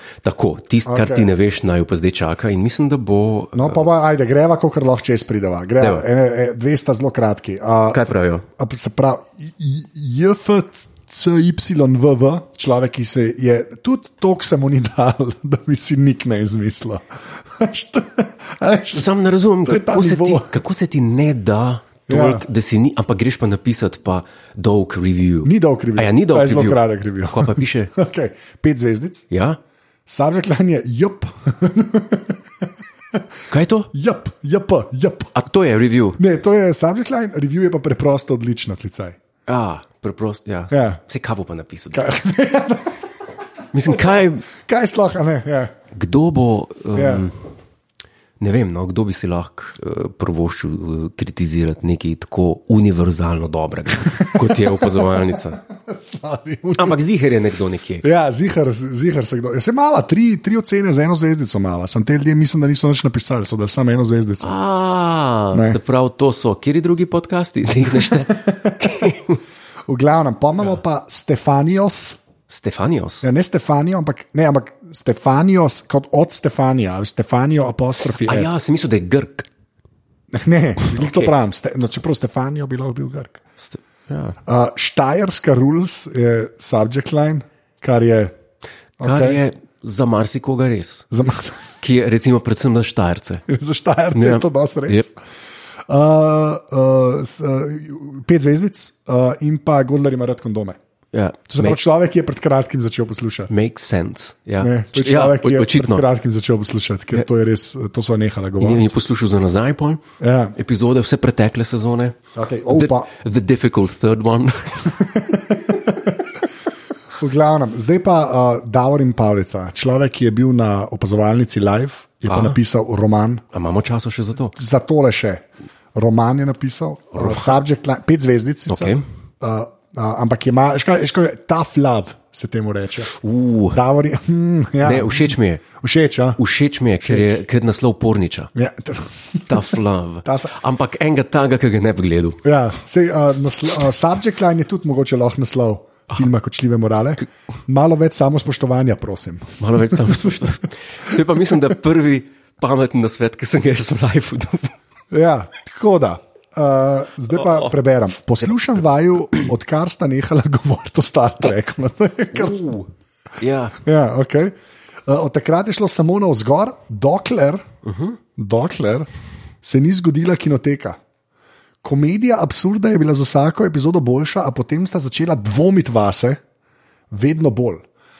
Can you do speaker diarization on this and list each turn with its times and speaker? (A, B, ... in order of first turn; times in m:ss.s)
0:00.2-0:03.8 A
0:00.9-0:01.3 B
0:03.5-0:19.1 B
0:05.8-0:06.0 A
0:07.9-0:08.4 A
0:18.9-0:27.9 A
0:19.7-0:20.6 B
0:22.1-0:22.4 B
0:25.4-0:29.3 B
0:29.3-0:29.6 A
0:30.1-0:32.4 B
0:33.5-0:33.9 A
0:33.9-0:35.4 B
0:35.4-0:36.2 A
0:36.2-0:39.2 B
0:39.5-0:42.1 A
0:40.7-0:41.0 B
0:41.9-0:43.0 B
0:43.7-0:44.5 A
0:43.8-0:45.7 B
0:45.9-0:47.4 A
0:47.0-0:47.3 B
0:48.4-0:55.6 A
0:54.1-0:57.0 B
0:56.8-0:58.0 A
0:58.0-1:04.6 B
1:04.4-1:09.4 A
1:05.5-1:05.8 B
1:08.3-1:08.9 B
1:09.9-1:12.2 B
1:12.5-1:13.3 A
1:13.2-1:18.6 B
1:18.2-1:19.5 A
1:20.3-1:23.4 B
1:20.8-1:21.3 A
1:23.6-1:24.4 A
1:24.5-1:28.3 B
1:29.0-1:29.4 B
1:29.0-1:31.1 A
1:31.1-1:31.6 B
1:31.8-1:33.4 A
1:33.5-1:35.2 B
1:34.1-1:35.1 A
1:35.9-1:40.8 B
1:41.1-1:41.8 A
1:41.5-1:43.5 B
1:43.5-1:46.1 A
1:44.6-1:48.9 B
1:48.6-1:50.0 A
1:50.2-1:50.6 B
1:50.6-1:52.2 A
1:52.4-1:53.1 B
1:52.7-1:55.2 A
1:55.0-1:56.3 B
1:57.2-2:03.4 B
2:02.3-2:02.6 A
2:03.5-2:04.6 A
2:04.6-2:13.1 B
2:07.1-2:07.6 A
2:08.7-2:09.0 A
2:13.1-2:13.8 A
2:13.7-2:16.4 B
2:14.8-2:15.6 A
2:16.4-2:18.5 A
2:17.0-2:17.4 B
2:18.6-2:19.8 B
2:19.5-2:22.4 A
2:20.3-2:20.5 B
2:22.4-2:30.4 B
2:29.6-2:34.8 A
2:35.1-2:42.7 B
2:37.4-2:37.7 A
2:42.3-2:42.9 A
2:43.4-2:43.8 A
2:43.8-2:44.5 B
2:45.1-2:47.6 B
2:47.8-2:48.2 A
2:48.4-2:49.1 B
2:49.6-2:51.0 B
2:51.8-2:56.4 B
2:57.1-2:57.9 B